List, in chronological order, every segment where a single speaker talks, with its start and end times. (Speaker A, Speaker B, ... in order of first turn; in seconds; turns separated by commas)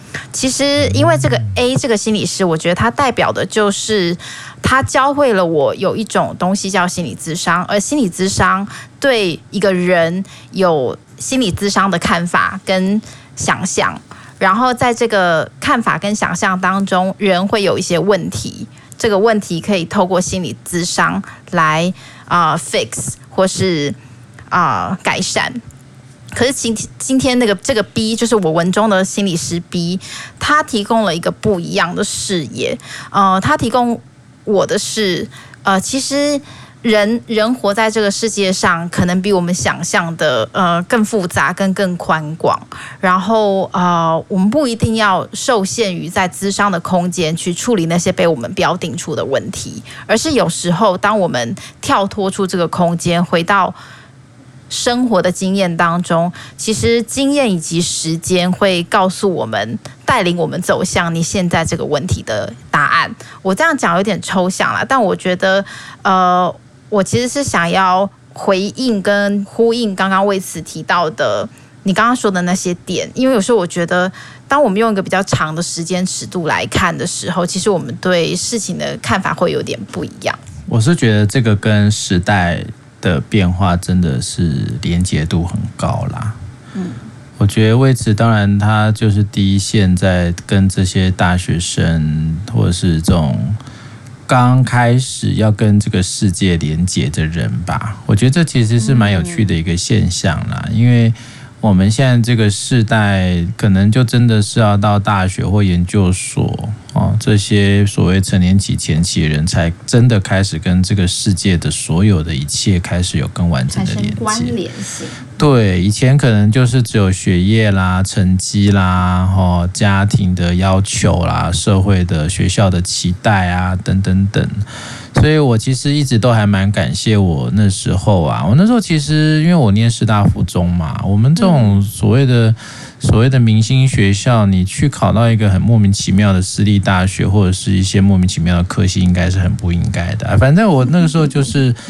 Speaker A: 0.3-23.9, Speaker B: 0.8-1.5, Speaker A: 24.5-25.6, Speaker A: 26.3-53.8, Speaker A: 54.7-80.4, Speaker B: 80.7-86.4, Speaker A: 86.7-87.1, Speaker B: 87.4-93.6, Speaker B: 94.3-114.5, Speaker A: 98.8-99.5, Speaker A: 113.7-115.3, Speaker B: 115.4-141.8, Speaker A: 131.3-131.8